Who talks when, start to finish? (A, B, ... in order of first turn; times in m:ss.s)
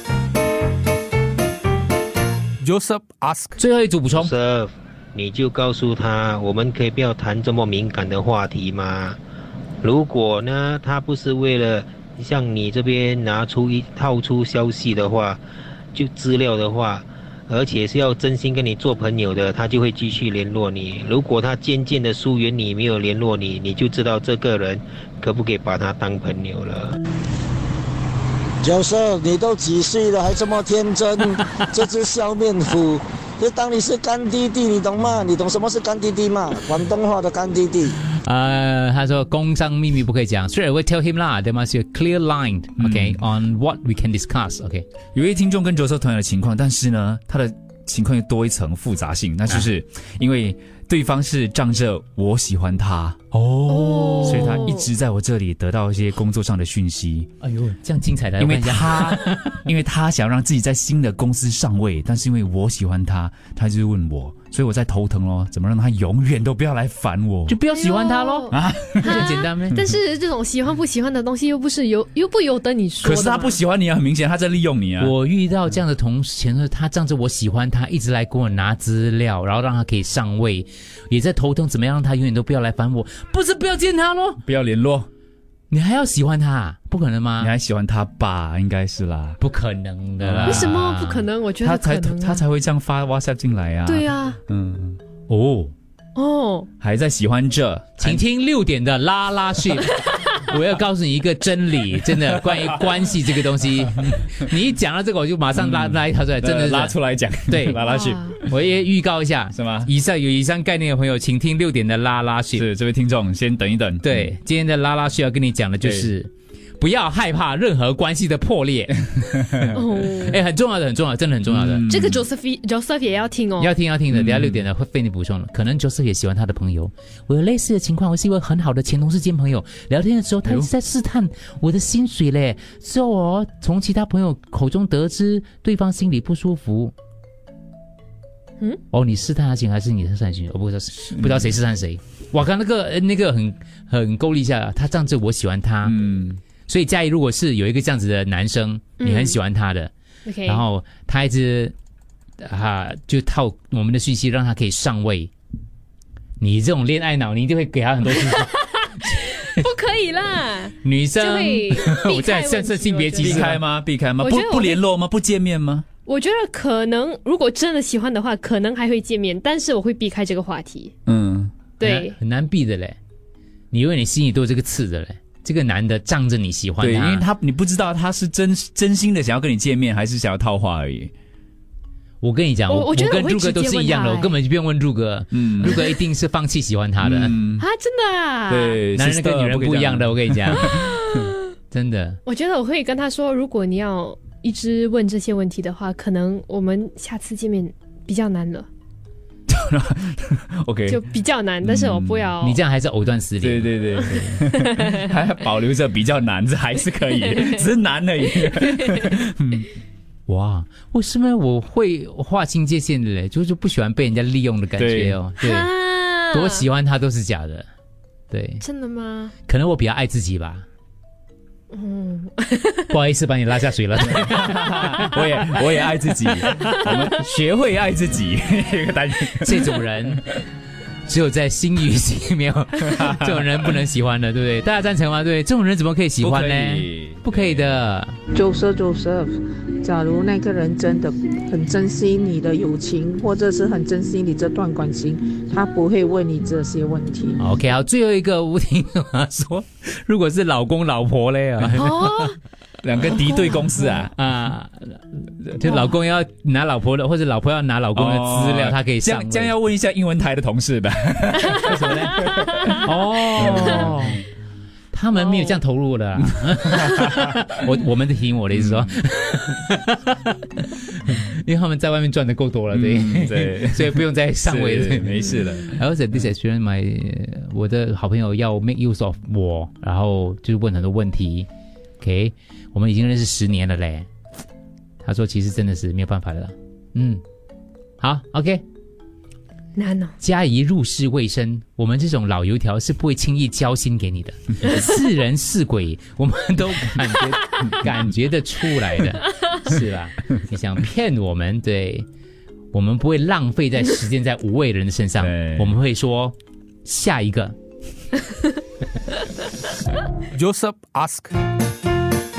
0:02.6-0:03.6 A
0:03.6-0:04.4 B
0:04.2-0:09.2 C
0:09.8-0:15.4 C
0:15.9-0:26.9 C
0:28.6-0:37.9 D
0:38.0-0:44.8 B
0:42.8-0:43.2 E
0:45.1-0:57.3 E
0:53.7-0:54.9 F
0:57.4-0:59.6 B
0:58.4-1:07.6 E
1:07.5-1:08.5 B
1:07.7-1:13.6 F
1:08.5-1:09.2 E
1:09.2-1:09.8 B
1:13.0-1:15.1 E
1:15.0-1:24.4 B
1:24.4-1:25.1 E
1:25.7-1:27.5 B
1:27.4-1:29.4 E
1:29.4-1:30.7 B
1:30.2-1:35.0 E
1:30.4-1:32.4 F
1:33.8-1:34.4 F
1:35.3-1:35.7 B
1:36.2-1:36.7 F
1:36.8-1:38.2 E
1:38.0-1:47.8 B
1:45.5-1:48.6 E
1:47.8-1:48.4 F
1:48.5-1:52.7 B
1:49.5-1:49.9 E
1:52.6-1:54.3 E
1:54.0-2:01.9 B
1:55.8-1:56.1 E
1:59.7-2:00.4 F
2:01.5-2:02.2 E
2:01.9-2:03.7 F
2:03.6-2:16.9 B
2:04.1-2:04.6 E
2:18.9-2:26.0 B
2:21.2-2:21.4 E
2:25.8-2:26.4 E
2:26.6-2:29.9 B
2:29.0-2:29.4 F
2:30.2-2:30.6 F
2:30.4-2:31.7 B
2:32.4-2:35.3 B
2:36.4-2:39.1 B
2:38.1-2:43.4 F
2:40.8-2:43.6 B
2:43.2-2:45.8 E
2:44.2-2:44.8 F
2:46.0-2:50.9 F
2:51.0-2:51.7 E
2:51.8-2:52.2 F
2:51.8-2:53.0 B
2:53.7-2:57.3 B
2:56.8-3:01.1 E
3:02.2-3:07.4 B
3:02.7-3:04.4 F
3:05.3-3:05.9 E
3:05.6-3:05.9 F
3:07.0-3:07.6 E
3:07.6-3:08.8 F
3:08.5-3:11.2 E
3:08.9-3:10.8 B
3:10.7-3:11.3 F
3:11.7-3:12.2 B
3:12.2-3:18.7 F
3:19.5-3:21.1 E
3:20.9-3:22.6 F
3:21.6-3:22.3 E
3:22.4-3:23.9 B
3:23.4-3:29.6 E
3:24.0-3:25.0 F
3:27.2-3:27.6 F
3:30.3-3:37.7 B
3:34.8-3:35.2 E
3:35.4-3:36.6 F
3:38.3-3:38.6 B
3:38.6-3:39.3 F
3:39.4-3:40.6 B
3:41.7-3:42.9 F
3:42.9-3:45.3 B
3:44.1-3:49.8 E
3:44.6-3:44.9 F
3:46.2-3:46.5 B
3:49.4-3:50.2 B
3:51.1-3:58.2 B
3:52.9-3:53.3 E
3:56.2-3:57.8 E
3:58.3-4:07.4 G
4:07.4-4:12.3 B
4:11.8-4:12.3 F
4:12.8-4:14.1 E
4:14.0-4:19.6 B
4:18.0-4:24.0 E
4:21.6-4:24.2 B
4:24.9-4:41.5 B
4:26.8-4:27.2 E
4:28.5-4:28.9 E
4:32.7-4:35.8 E
4:42.0-4:44.1 B
4:45.0-4:47.2 B
4:48.0-4:48.6 B
4:49.8-4:50.1 F
4:50.2-5:02.0 B
5:02.7-5:07.5 B
5:05.2-5:05.8 E
5:10.3-5:11.3 A